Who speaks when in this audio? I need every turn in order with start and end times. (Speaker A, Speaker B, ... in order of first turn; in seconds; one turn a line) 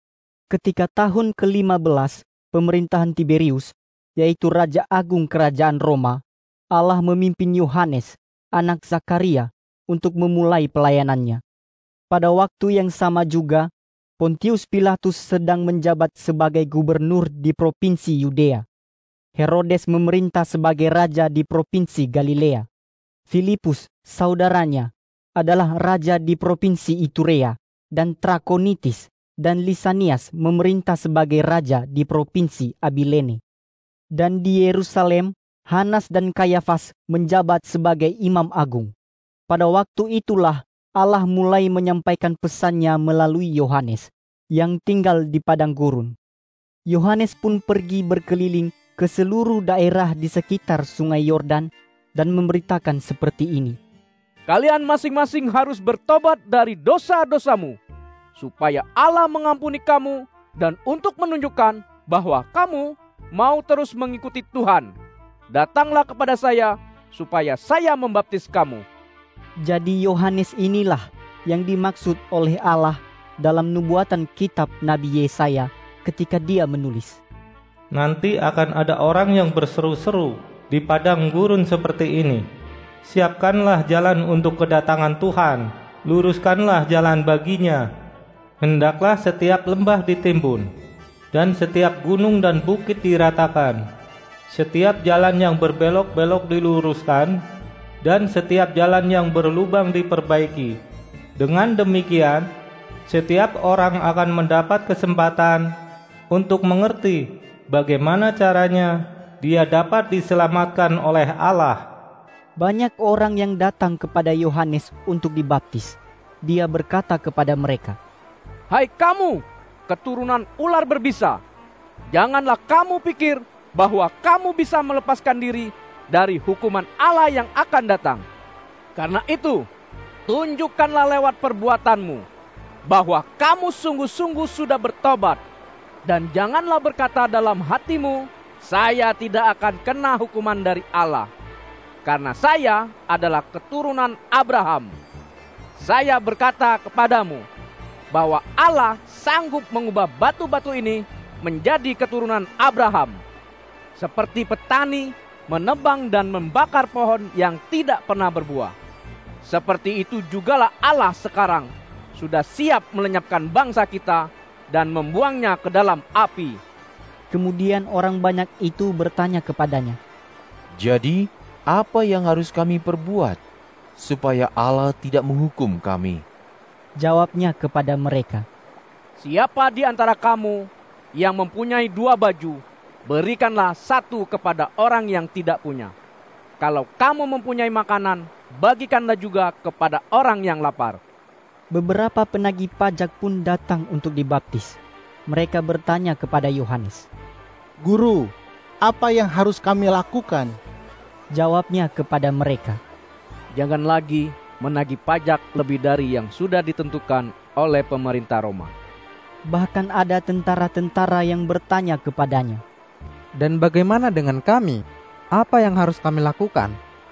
Speaker A: 0.5-11.4
Speaker A: 12.1-13.7
Speaker A: 14.2-18.6
Speaker A: 19.4-22.7
Speaker A: 23.3-33.4
Speaker A: 34.1-38.9
Speaker A: 39.5-46.1
Speaker A: 46.9-53.8
Speaker B: 54.5-57.8
Speaker B: 58.4-64.9
Speaker B: 65.5-68.8
Speaker A: 69.6-77.2
Speaker C: 77.9-82.4
Speaker C: 83.0-87.8
Speaker C: 88.6-90.7
Speaker C: 91.3-93.8
Speaker C: 94.5-97.3
Speaker C: 98.0-100.8
Speaker C: 101.4-102.5
Speaker C: 103.1-105.6
Speaker C: 106.3-111.8
Speaker A: 112.6-118.0
Speaker B: 118.7-121.4
Speaker B: 122.1-128.2
Speaker B: 128.9-129.6
Speaker B: 130.3-132.2
Speaker B: 132.9-135.4
Speaker B: 136.1-141.3
Speaker B: 142.0-144.9
Speaker B: 145.8-147.4
Speaker B: 148.1-153.2
Speaker B: 153.9-158.7
Speaker B: 159.4-166.6
Speaker A: 167.3-170.0
Speaker D: 170.8-171.2
Speaker D: 171.8-173.4
Speaker D: 174.0-176.2
Speaker A: 177.0-178.4
Speaker B: 179.2-185.9
Speaker B: 186.6-191.0
Speaker A: 191.7-197.1
Speaker E: 197.8-200.6
Speaker A: 201.3-202.8
Speaker B: 203.5-208.7
Speaker A: 209.5-212.6
Speaker F: 213.4-214.8
Speaker F: 215.3-216.7